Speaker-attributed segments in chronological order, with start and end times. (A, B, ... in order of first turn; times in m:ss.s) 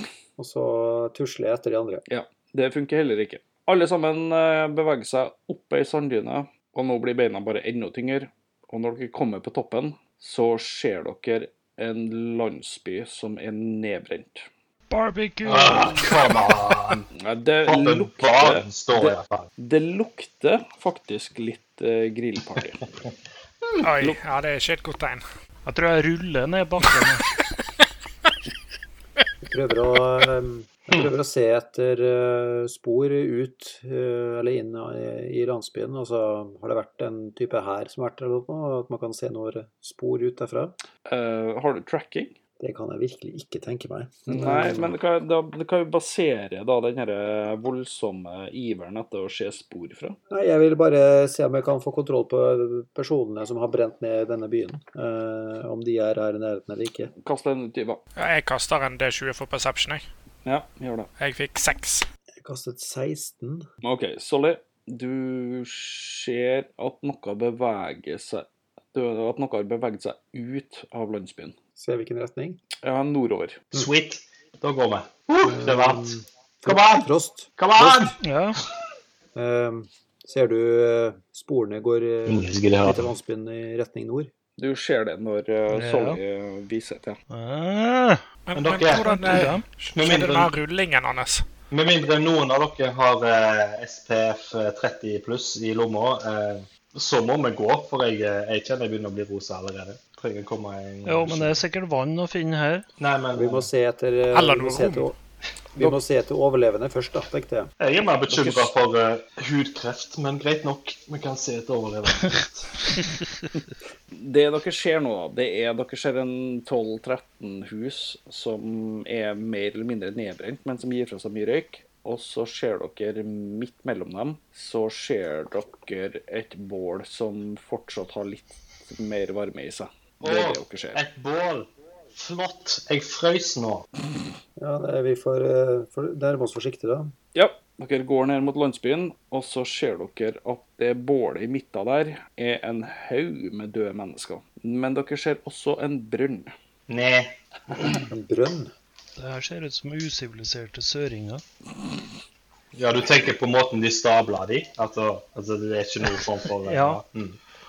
0:00.4-0:02.0 A
0:02.1-0:14.5 B
0:14.9-0:16.2 C
0:15.5-0:17.1 D
0:17.2-0:22.8 B
0:17.7-0:19.5 D
0:23.8-0:25.2 E
0:25.7-0:27.3 C
0:29.4-0:40.8 A
0:41.1-0:42.4 B
0:42.6-0:45.0 A
0:44.3-0:50.2 B
0:50.3-0:57.1 A
0:57.2-0:58.0 B
0:58.2-1:00.0 E
1:00.4-1:01.1 B
1:01.2-1:02.0 E
1:02.4-1:03.7 A
1:03.8-1:11.6 B
1:11.8-1:12.6 A
1:12.8-1:13.6 B
1:13.7-1:18.2 D
1:15.4-1:18.2 A
1:18.2-1:18.6 C
1:19.4-1:24.3 A
1:22.3-1:23.1 D
1:24.6-1:27.2 B
1:25.7-1:26.2 C
1:27.3-1:28.2 C
1:28.5-1:31.5 E
1:28.6-1:29.4 D
1:29.0-1:29.7 C
1:29.9-1:30.6 D
1:31.7-1:41.6 D
1:41.0-1:42.9 C
1:43.0-1:43.7 D
1:43.3-1:45.2 A
1:44.3-1:45.0 E
1:45.8-1:47.7 A
1:47.8-1:52.7 D
1:48.3-1:48.7 B
1:54.2-2:11.0 B
2:10.2-2:13.8 D
2:14.6-2:17.1 A
2:17.4-2:26.5 B
2:26.9-2:28.0 D
2:28.1-2:28.7 A
2:29.2-2:31.4 C
2:32.8-2:37.4 D
2:36.7-2:37.0 C